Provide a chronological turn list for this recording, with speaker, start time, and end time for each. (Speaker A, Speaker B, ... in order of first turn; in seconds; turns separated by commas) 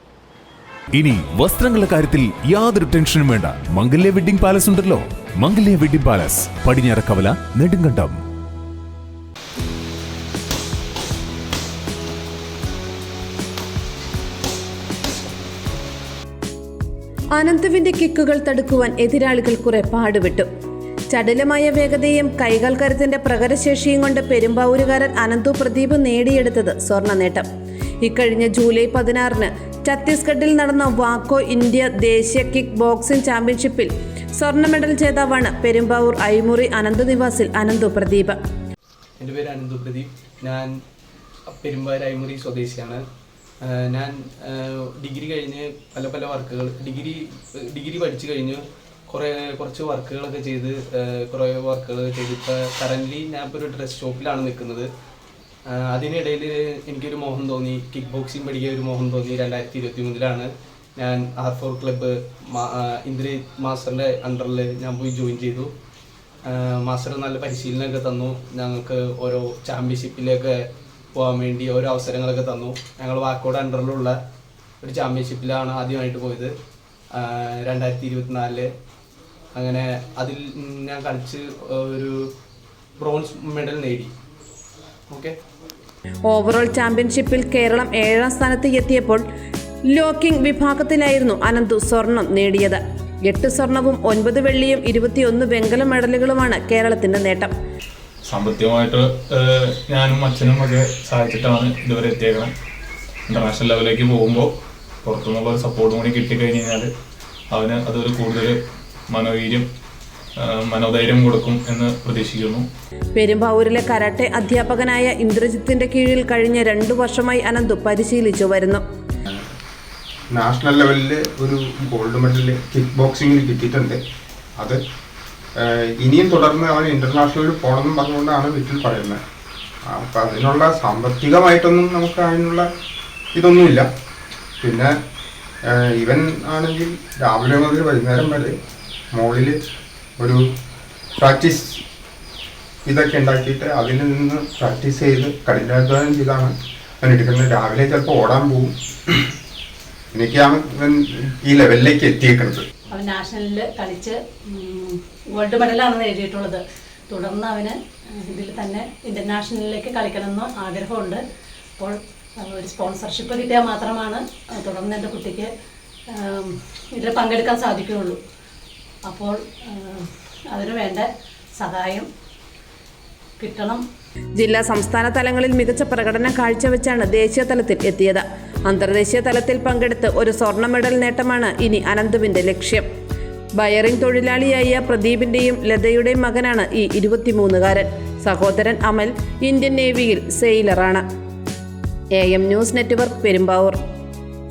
Speaker A: 0.9-8.2, Speaker B: 17.3-20.5, Speaker B: 21.1-27.4, Speaker B: 28.0-38.4, Speaker C: 39.2-40.7, Speaker C: 41.5-43.0, Speaker C: 43.6-54.9, Speaker C: 55.7-65.7, Speaker C: 66.5-74.2, Speaker C: 74.8-76.5, Speaker C: 77.2-78.7, Speaker C: 79.5-82.3, Speaker C: 83.0-84.1, Speaker C: 85.1-85.4, Speaker B: 86.2-89.2, Speaker B: 89.9-97.5, Speaker D: 98.2-102.5, Speaker D: 103.3-104.5, Speaker D: 105.0-106.9, Speaker D: 107.5-108.6, Speaker D: 109.1-109.7, Speaker D: 110.4-112.7, Speaker B: 113.1-118.8, Speaker E: 120.3-124.0, Speaker E: 125.6-129.2, Speaker E: 129.9-132.7, Speaker E: 133.3-133.9, Speaker E: 134.6-134.9, Speaker E: 135.7-138.6, Speaker E: 139.1-139.6, Speaker E: 141.2-141.8, Speaker E: 142.9-149.3, Speaker E: 150.1-152.6, Speaker F: 152.9-161.2, Speaker F: 161.8-165.5, Speaker F: 166.1-168.2, Speaker F: 169.1-172.1, Speaker F: 173.4-173.8, Speaker B: 174.3-182.8, Speaker B: 183.6-191.0, Speaker B: 192.1-193.8